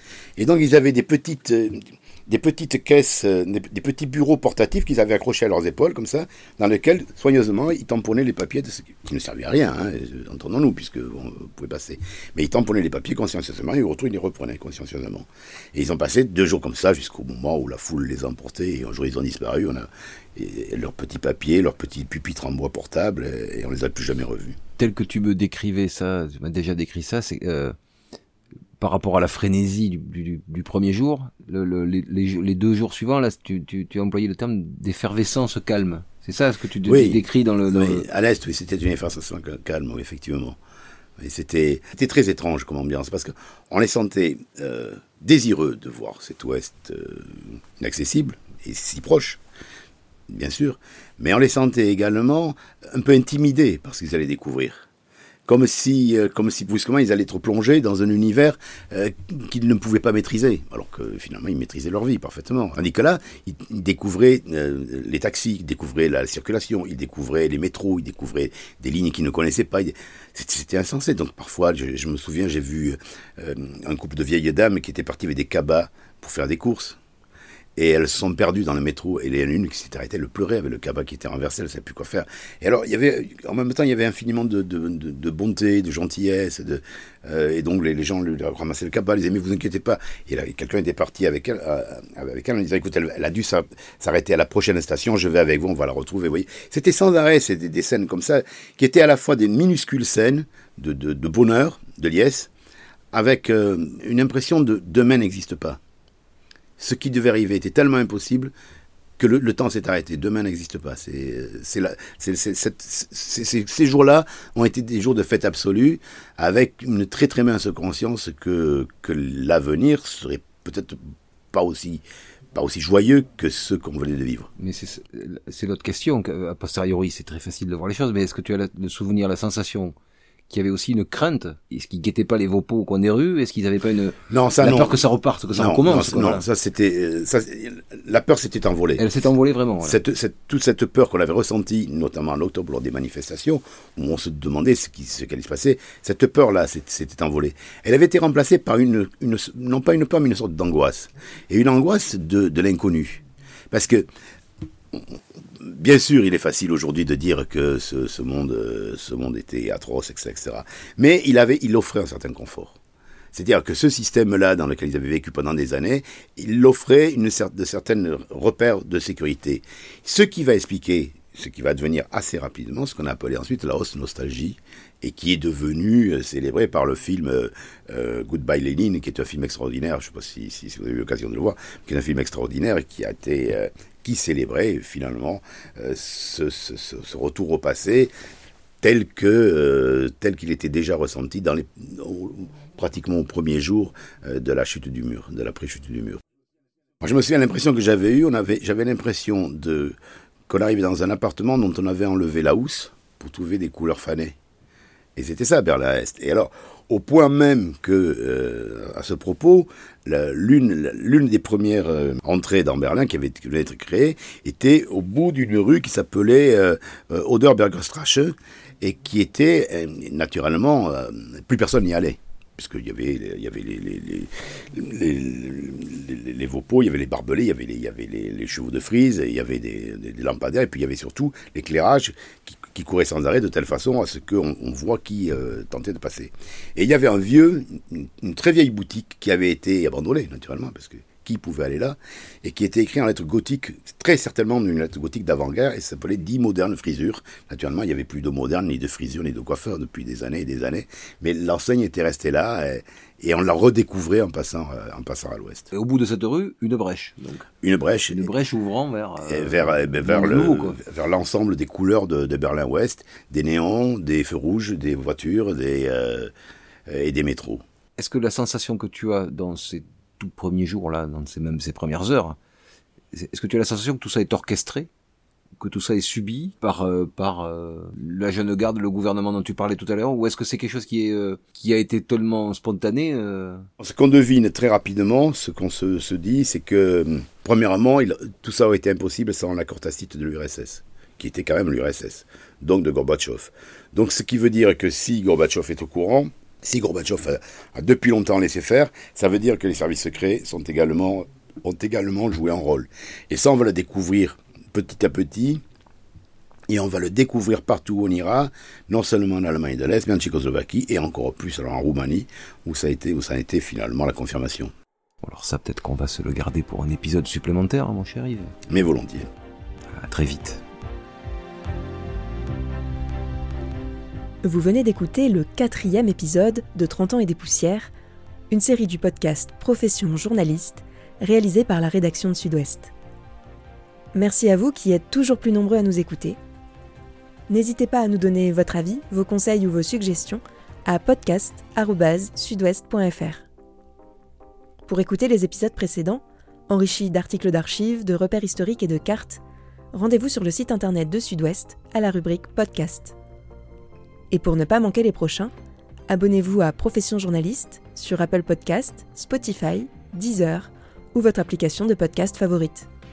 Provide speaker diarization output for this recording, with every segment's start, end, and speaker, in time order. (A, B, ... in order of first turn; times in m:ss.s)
0:00.4-0:24.6 A
0:24.8-0:27.7 B
0:28.8-0:38.1 B
0:36.8-0:40.6 A
0:41.2-0:49.4 A
0:50.3-0:54.9 A
0:55.5-1:17.0 A
1:17.8-1:42.5 A
1:43.1-1:45.8 A
1:46.8-1:48.5 A
1:49.2-2:01.0 A
2:01.5-2:04.5 A
2:04.6-2:09.9 B
2:10.5-2:16.4 B
2:14.3-2:15.0 A
2:15.5-2:19.1 A
2:19.0-2:20.0 B
2:19.8-2:34.1 A
2:35.6-2:42.8 A
2:43.3-3:08.1 A
3:08.8-3:16.2 A
3:17.0-3:20.0 A
3:20.5-3:24.4 A
3:25.2-4:15.7 A
4:15.7-4:17.5 B
4:17.6-4:18.3 A
4:18.1-4:20.8 B
4:19.2-4:26.3 A
4:26.9-4:27.6 A
4:28.0-4:32.4 B
4:33.1-4:34.9 B
4:35.6-4:43.6 B
4:43.8-5:05.6 A
5:06.7-5:14.7 A
5:15.2-5:18.5 B
5:18.7-5:19.3 A
5:20.0-5:20.6 B
5:24.4-5:27.9 C
5:28.5-5:32.9 C
5:34.1-5:36.4 C
5:37.5-5:43.5 C
5:44.9-5:49.4 C
5:49.9-5:53.2 C
5:54.3-5:55.5 C
5:56.1-6:02.9 C